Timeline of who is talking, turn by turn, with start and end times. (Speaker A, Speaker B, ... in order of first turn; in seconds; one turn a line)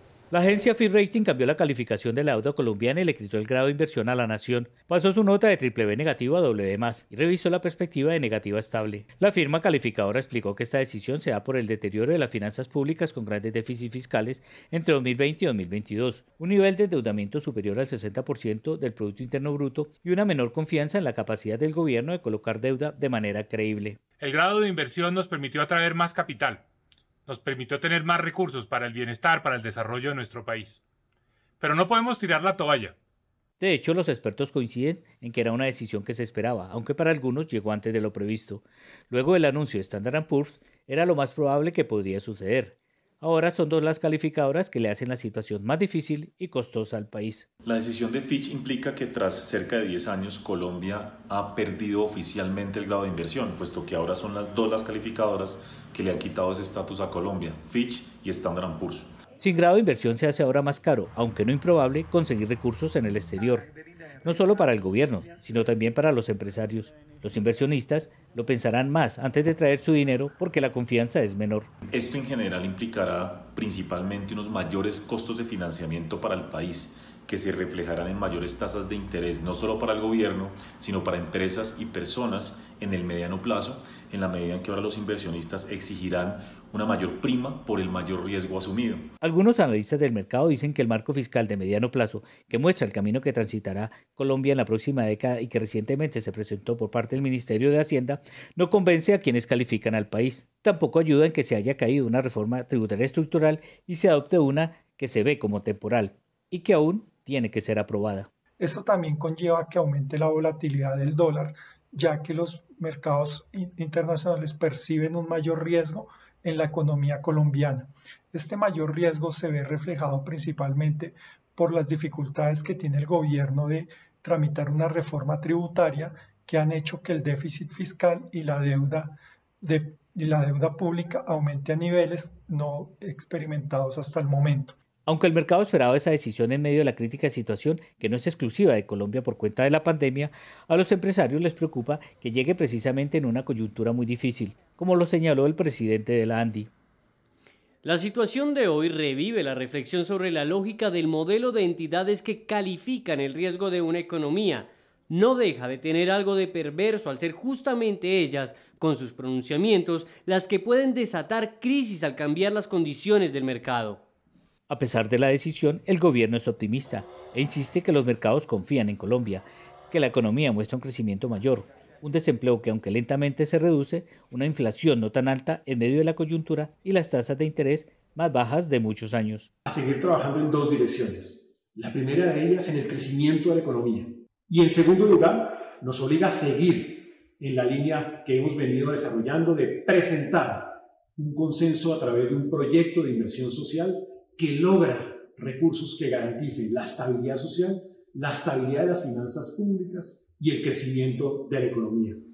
Speaker A: 0.3-24.0
Speaker B: 24.2-26.6
Speaker B: 27.3-30.8
Speaker B: 31.6-32.9
Speaker A: 33.6-47.5
Speaker C: 47.6-59.1
Speaker A: 59.4-63.7
Speaker A: 64.2-71.7
Speaker C: 71.9-89.1
Speaker A: 89.2-108.3
Speaker D: 108.6-134.8
Speaker A: 135.1-146.7
Speaker E: 147.8-164.0
Speaker A: 164.7-179.5
Speaker F: 179.7-202.2